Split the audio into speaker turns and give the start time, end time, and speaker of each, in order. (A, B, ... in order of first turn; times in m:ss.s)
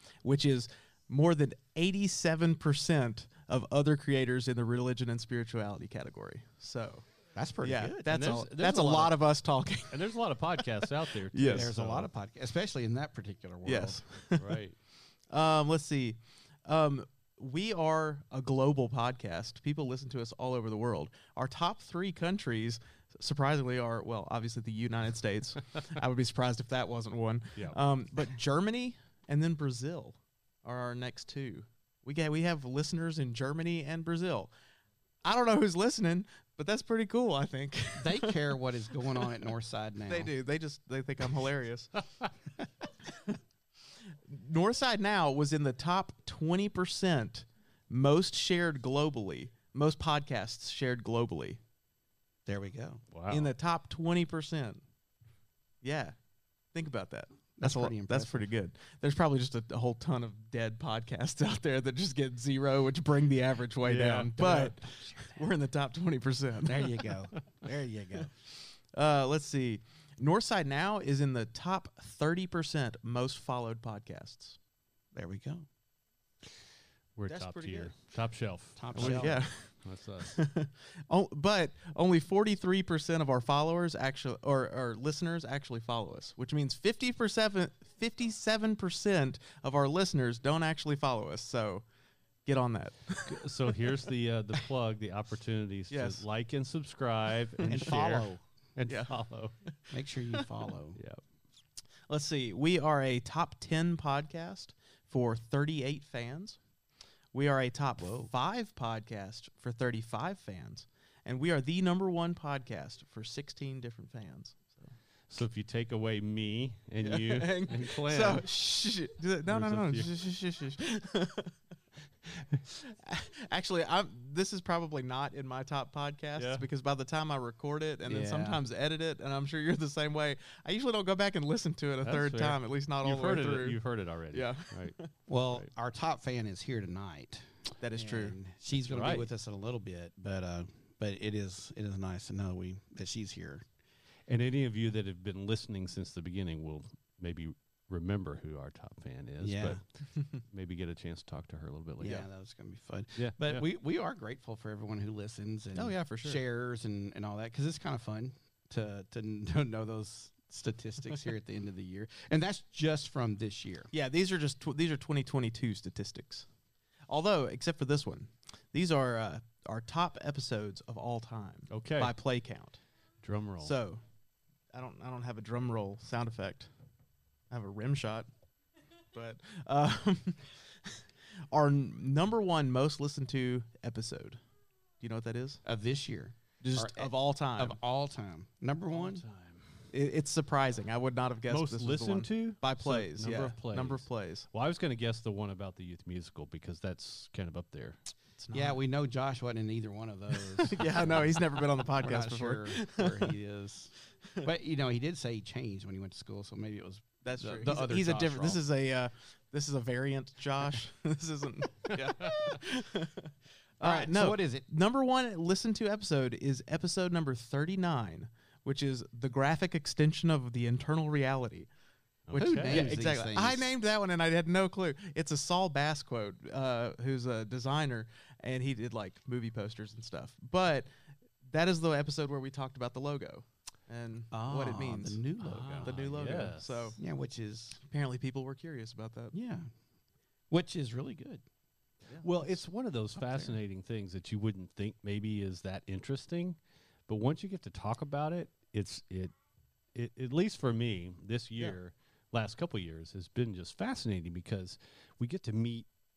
0:00.2-0:07.0 A
0:07.3-0:08.4 B
0:07.6-0:10.6 A
0:08.1-0:09.3 C
0:09.9-0:12.1 C
0:11.3-0:11.7 A
0:11.5-0:14.0 B
0:13.6-0:14.5 A
0:14.4-0:14.8 C
0:15.3-0:34.5 A
0:35.2-0:38.4 A
0:38.0-0:40.3 B
0:40.1-0:42.0 A
0:44.3-0:51.6 A
0:52.4-0:53.0 B
0:53.1-0:53.5 C
0:53.3-0:54.8 A
0:55.8-0:56.2 A
0:56.7-1:06.9 A
0:57.6-0:58.5 B
1:03.8-1:04.7 C
1:04.4-1:04.8 B
1:06.6-1:08.3 B
1:08.9-1:14.6 A
1:15.1-1:15.7 B
1:17.2-1:20.4 C
1:17.3-1:17.9 A
1:18.8-1:19.4 B
1:19.0-1:31.8 A
1:32.4-1:33.4 A
1:33.3-1:39.5 C
1:35.9-1:36.2 A
1:37.6-1:38.0 A
1:37.7-1:38.4 B
1:38.8-1:39.1 A
1:39.9-1:41.0 B
1:42.1-1:46.6 A
1:47.3-1:54.9 A
1:48.0-1:48.3 B
1:55.3-1:58.5 C
1:57.0-2:01.5 A
1:59.5-2:00.1 C
2:02.8-2:13.8 A
2:06.4-2:06.6 C
2:08.1-2:08.5 C
2:08.1-2:08.6 B
2:12.0-2:14.9 C
2:14.3-2:15.1 A
2:15.3-2:23.6 B
2:17.8-2:18.4 A
2:18.7-2:19.3 C
2:24.3-2:32.2 C
2:29.4-2:29.8 B
2:32.0-2:43.9 B
2:33.2-2:33.6 C
2:35.7-2:36.4 A
2:43.9-2:46.5 A
2:47.1-2:52.8 A
2:51.7-2:52.1 C
2:53.2-2:53.7 C
2:53.6-2:54.0 A
2:54.7-2:56.7 A
2:57.5-2:58.3 A
2:59.1-3:04.4 A
3:05.0-3:05.6 A
3:05.6-3:09.2 B
3:06.6-3:07.8 A
3:08.9-3:09.7 C
3:09.9-3:14.5 A
3:11.5-3:18.0 C
3:18.4-3:18.8 A
3:18.5-3:28.6 B
3:20.7-3:23.3 A
3:27.2-3:41.7 A
3:33.8-3:34.6 B
3:42.3-3:42.9 C
3:42.3-3:50.9 A
3:42.3-3:43.7 B
3:51.4-3:55.2 A
3:54.3-3:56.1 B
3:55.4-3:57.0 C
3:55.8-3:57.0 A
3:57.0-3:57.8 B
3:57.8-3:59.3 A
3:59.3-3:59.7 B
4:00.5-4:01.4 B
4:02.2-4:06.6 C
4:03.1-4:03.6 B
4:07.1-4:09.3 C
4:09.9-4:15.9 C